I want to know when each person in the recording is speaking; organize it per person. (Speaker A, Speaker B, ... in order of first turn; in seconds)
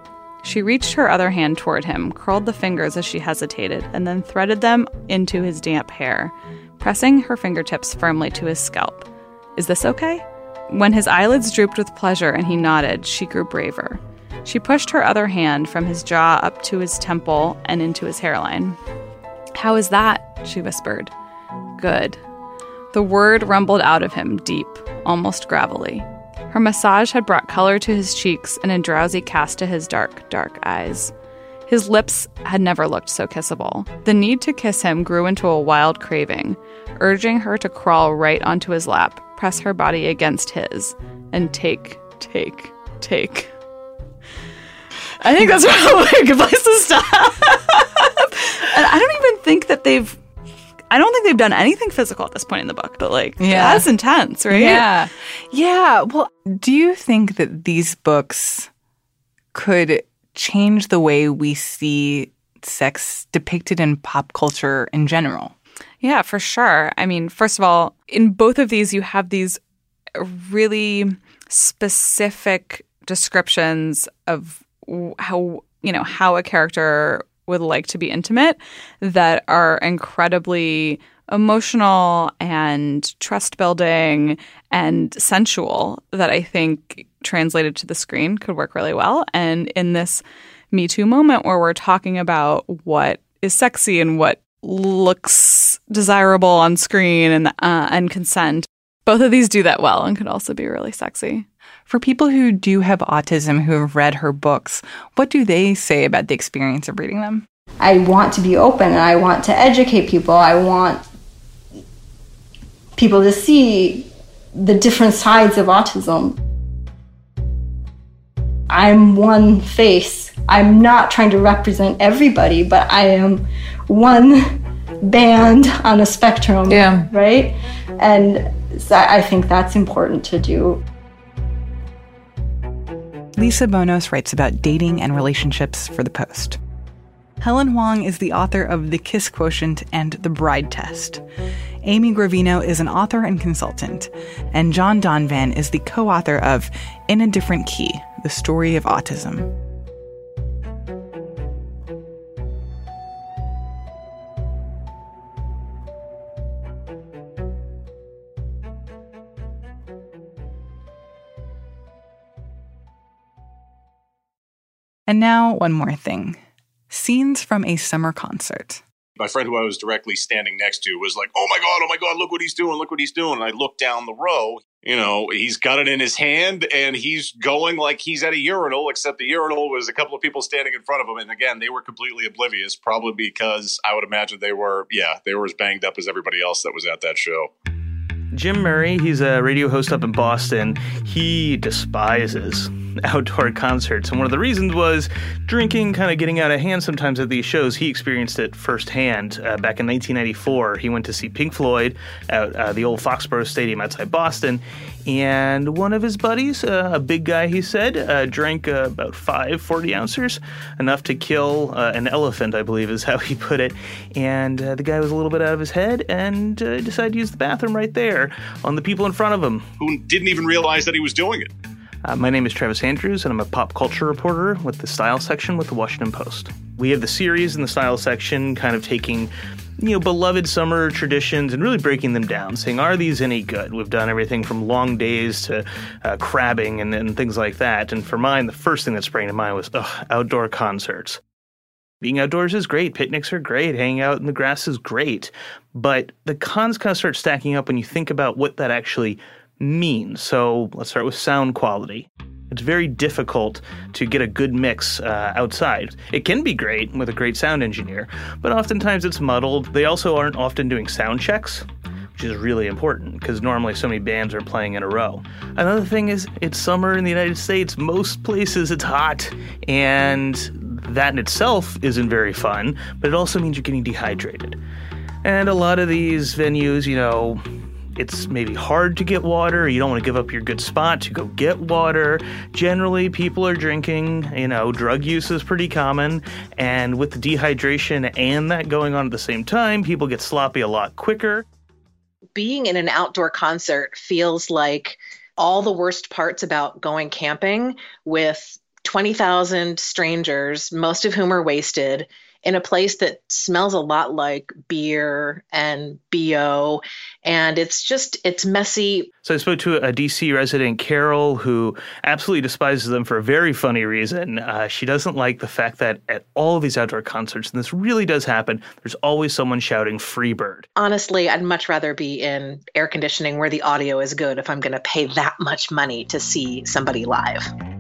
Speaker A: 0.4-18.8, 19.5-21.1, 21.8-22.2, 22.9-31.1, 31.7-43.5, 45.2-50.2, 50.9-54.9, 66.0-69.6, 70.1-101.5
Speaker B: 53.4-53.9, 54.5-58.7, 59.5-65.5, 101.9-107.5, 133.4-136.6, 137.4-141.2, 141.8-149.5, 165.1-168.8
Speaker C: 107.8-111.0, 113.0-116.4, 118.7-130.8
Speaker D: 169.2-187.5, 219.8-221.5
Speaker E: 188.3-219.7, 222.0-241.2, 242.0-274.6, 275.2-277.4, 278.0-291.4, 309.2-320.7
Speaker F: 292.3-309.1, 320.8-327.5